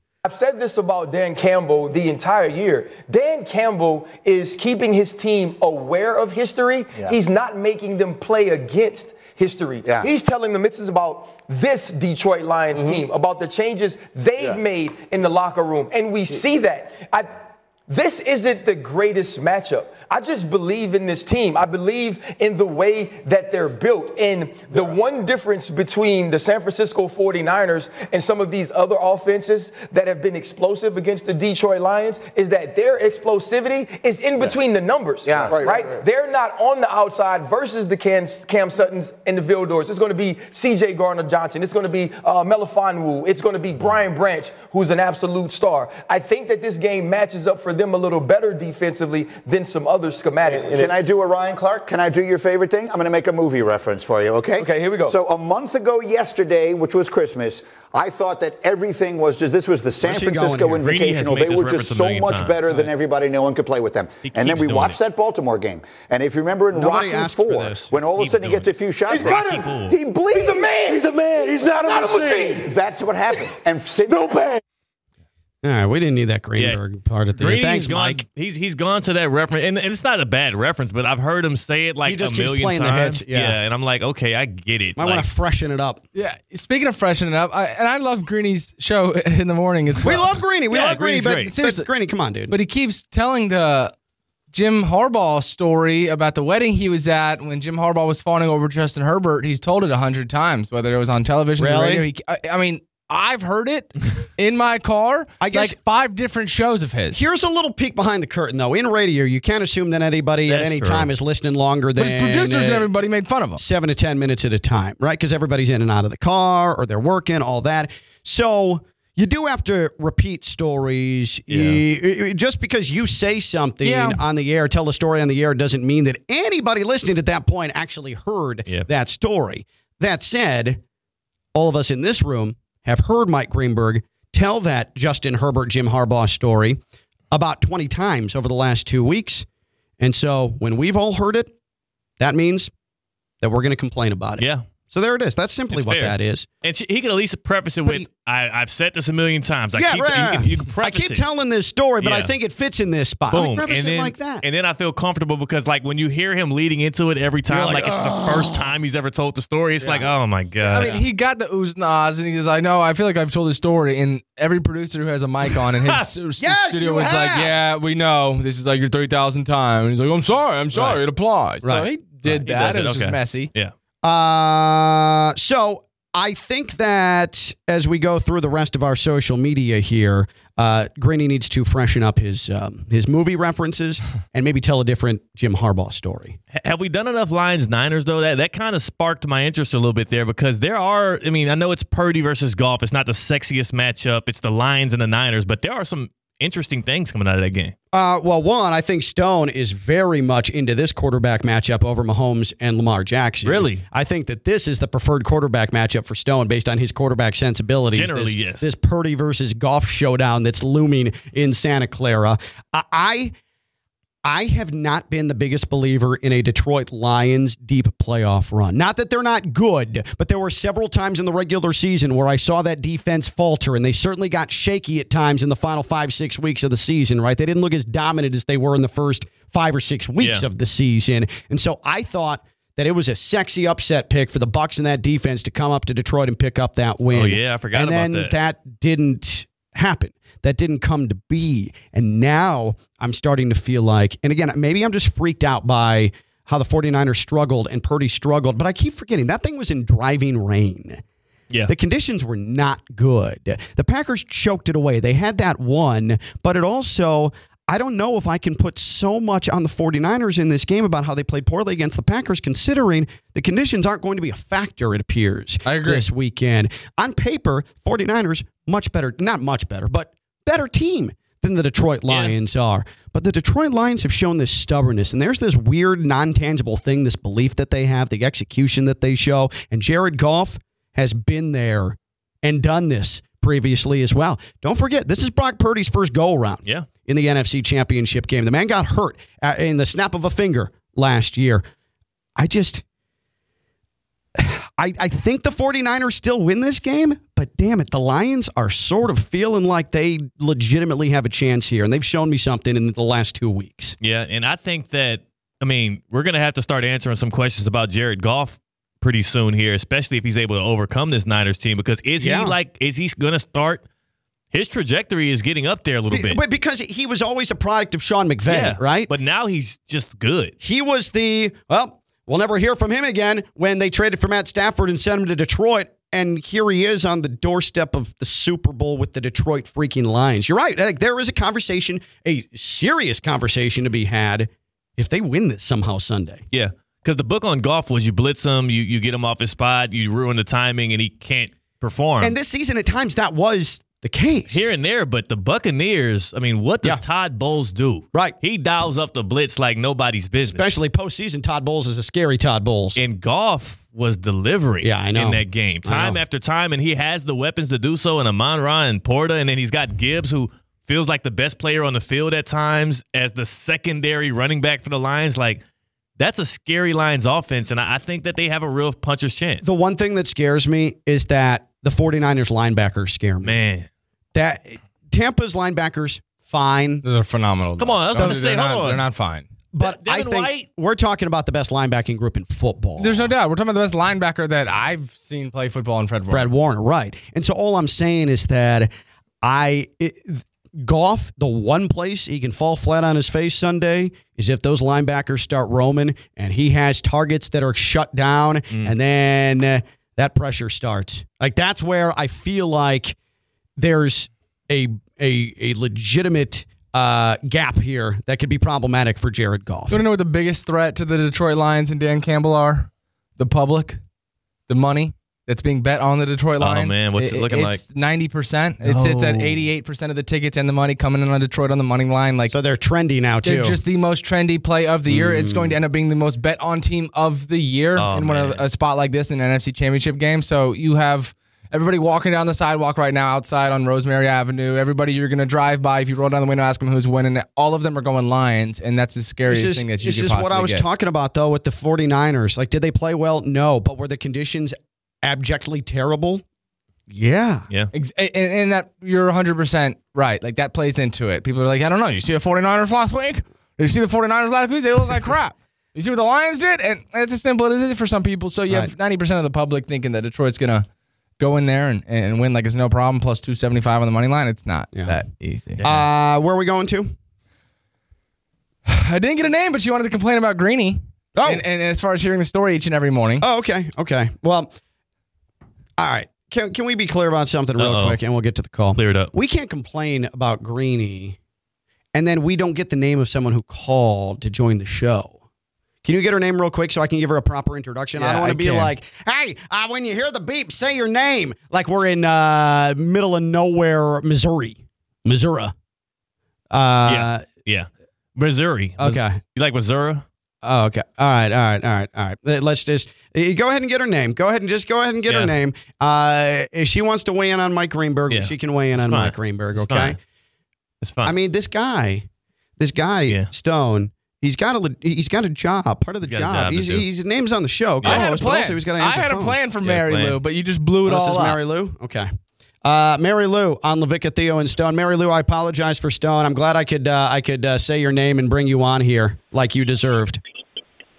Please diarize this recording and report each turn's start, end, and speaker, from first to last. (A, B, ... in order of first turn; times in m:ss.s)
0:00.2-0:50.9 A
0:09.8-0:10.1 B
0:35.4-0:35.8 B
0:50.5-1:14.5 B
0:54.6-0:55.2 A
1:00.0-1:00.8 C
1:00.8-1:02.6 D
1:04.2-1:05.0 D
1:06.7-1:07.9 C
1:08.2-1:10.0 D
1:09.1-1:09.6 A
1:10.3-1:12.7 A
1:15.6-1:18.2 C
1:17.4-1:25.3 D
1:22.0-1:23.6 C
1:25.0-1:26.0 C
1:26.1-1:30.3 E
1:30.0-1:32.5 C
1:30.7-1:31.5 D
1:31.3-1:31.9 E
1:32.5-1:33.9 E
1:34.5-1:47.2 E
1:41.6-1:42.1 C
1:45.4-1:45.8 C
1:47.1-1:52.9 C
1:50.5-1:51.1 D
1:52.0-1:53.6 E
1:53.6-2:10.8 C
2:01.5-2:01.8 D
2:03.8-2:04.2 E
2:11.5-2:16.8 C
2:17.3-2:19.5 C
2:20.0-2:21.5 C
2:22.2-2:22.7 C
2:23.4-2:26.5 C
2:24.4-2:24.6 D
2:25.7-2:31.2 D
2:29.8-2:34.4 C
2:32.0-2:32.3 D
2:33.3-2:41.0 D
2:37.5-2:38.6 C
2:39.8-2:40.1 C
2:40.6-2:53.5 E
2:45.8-2:46.1 D
2:46.4-2:47.6 C
2:50.7-2:51.0 C
2:51.6-2:51.9 C
2:52.4-2:53.7 D
2:54.0-3:06.4 C
3:06.5-3:17.7 D
3:17.9-3:33.3 C
3:23.4-3:23.8 D
3:27.9-3:28.7 D
3:34.2-4:11.0 C
3:50.2-3:50.4 D
3:57.1-3:58.4 D
4:11.7-4:51.6 C
4:25.6-4:26.0 E
4:32.1-4:32.4 D
4:52.4-4:52.8 C
4:54.4-5:04.0 C
5:04.0-5:13.8 D
5:12.2-5:12.6 C
5:14.5-5:16.4 D
5:16.1-5:19.1 C
5:18.5-5:20.6 D
5:20.6-5:36.4 C
5:36.5-5:42.4 D
5:42.2-5:44.7 C
5:44.5-5:50.7 D
5:50.4-5:53.0 C
5:53.0-6:05.6 D
5:54.8-5:56.2 C
6:06.2-6:09.7 D
6:09.6-6:13.6 C
6:13.4-6:13.9 D
6:14.3-6:17.0 C
6:17.0-6:19.5 E
6:17.8-6:19.0 D
6:18.2-6:18.4 C
6:19.7-6:23.3 C
6:19.8-6:20.7 D
6:23.0-6:26.5 E
6:26.3-6:28.9 C
6:29.4-6:43.2 C
6:43.8-6:50.0 C
6:49.9-6:54.0 E
6:54.7-7:02.6 E
6:56.6-6:57.8 D
6:58.8-6:59.6 D
7:02.5-7:03.8 C
7:03.4-7:20.8 E
7:05.1-7:05.8 C
7:08.0-7:08.6 D
7:19.5-7:26.4 C
7:27.1-7:27.7 C
7:27.9-7:40.9 E
7:41.4-7:45.8 E
7:45.8-7:47.1 C
7:48.9-7:53.5 E
7:51.4-7:51.6 C
7:53.4-7:54.7 C
7:56.0-8:01.4 C
7:57.8-7:58.2 D
7:59.0-7:59.3 D
8:02.1-8:05.4 C
8:06.0-8:15.7 C
8:08.2-8:08.9 E
8:16.7-8:17.5 C
8:17.1-8:20.2 D
8:19.0-8:19.4 C
8:20.6-8:30.2 C
8:25.3-8:25.5 D
8:28.3-8:30.2 D
8:31.0-8:31.3 D
8:31.2-8:32.3 C
8:32.8-8:39.6 C
8:36.2-8:37.1 D
8:38.0-8:38.4 D
8:38.0-8:41.6 E
8:39.8-8:40.4 D
8:41.0-8:42.3 C
8:42.8-8:50.4 C